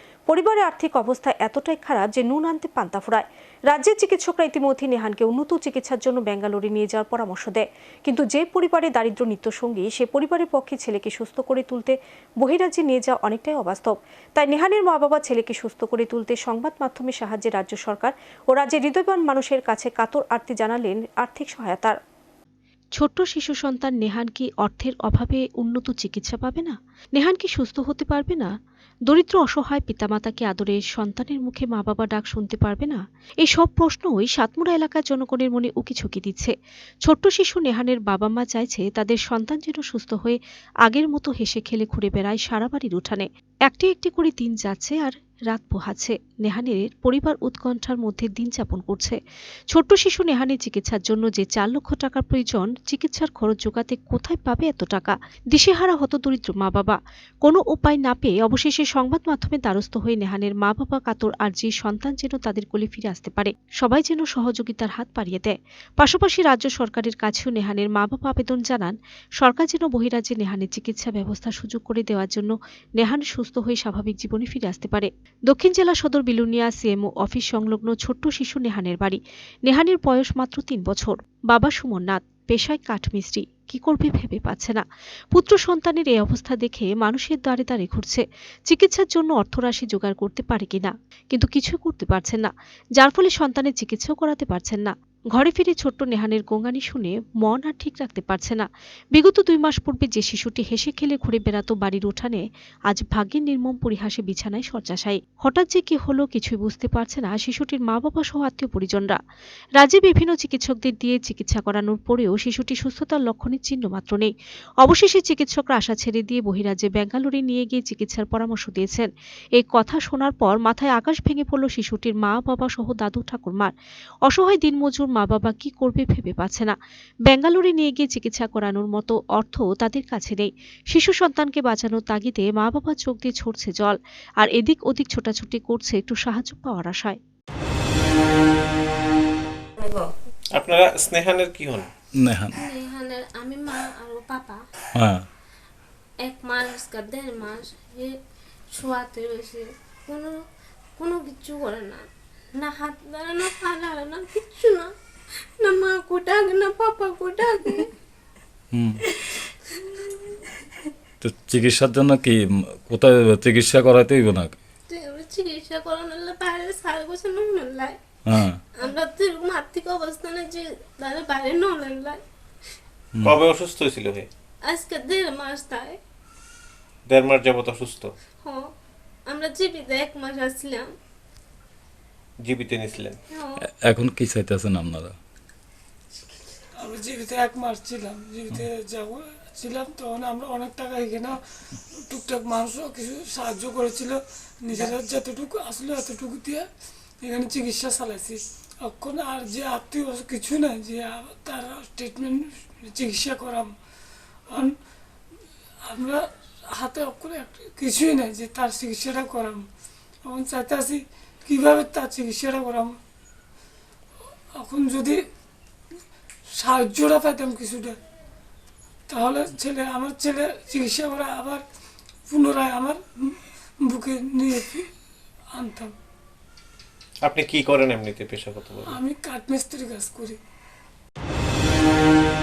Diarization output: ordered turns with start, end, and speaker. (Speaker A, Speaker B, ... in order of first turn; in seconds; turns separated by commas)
Speaker A: 0.3-22.0, Speaker A: 23.0-28.5, Speaker A: 29.1-36.5, Speaker A: 37.1-49.2, Speaker A: 49.7-109.2, Speaker A: 109.8-114.3, Speaker A: 114.8-123.7, Speaker A: 124.3-126.8, Speaker A: 127.3-137.2, Speaker B: 140.6-141.9, Speaker C: 142.2-142.6, Speaker D: 142.6-144.6, Speaker C: 145.0-145.3, Speaker D: 146.2-148.2, Speaker D: 148.8-150.4, Speaker D: 151.0-152.1, Speaker D: 152.6-154.9, Speaker D: 155.6-157.9, Speaker C: 158.7-159.0, Speaker D: 159.3-160.4, Speaker C: 161.2-164.6, Speaker D: 164.9-168.0, Speaker C: 168.3-168.6, Speaker D: 168.8-172.2, Speaker B: 173.2-174.3, Speaker D: 174.7-176.0, Speaker B: 177.1-178.1, Speaker D: 179.3-180.9, Speaker B: 182.4-183.2, Speaker D: 183.3-183.6, Speaker C: 183.8-185.2, Speaker E: 186.8-191.4, Speaker E: 191.9-196.7, Speaker E: 197.2-203.7, Speaker E: 205.8-209.7, Speaker E: 210.2-213.0, Speaker E: 214.6-215.2, Speaker E: 216.6-218.0, Speaker E: 219.1-221.6, Speaker E: 222.3-224.9, Speaker E: 225.5-225.9, Speaker B: 227.2-229.0, Speaker E: 228.9-230.4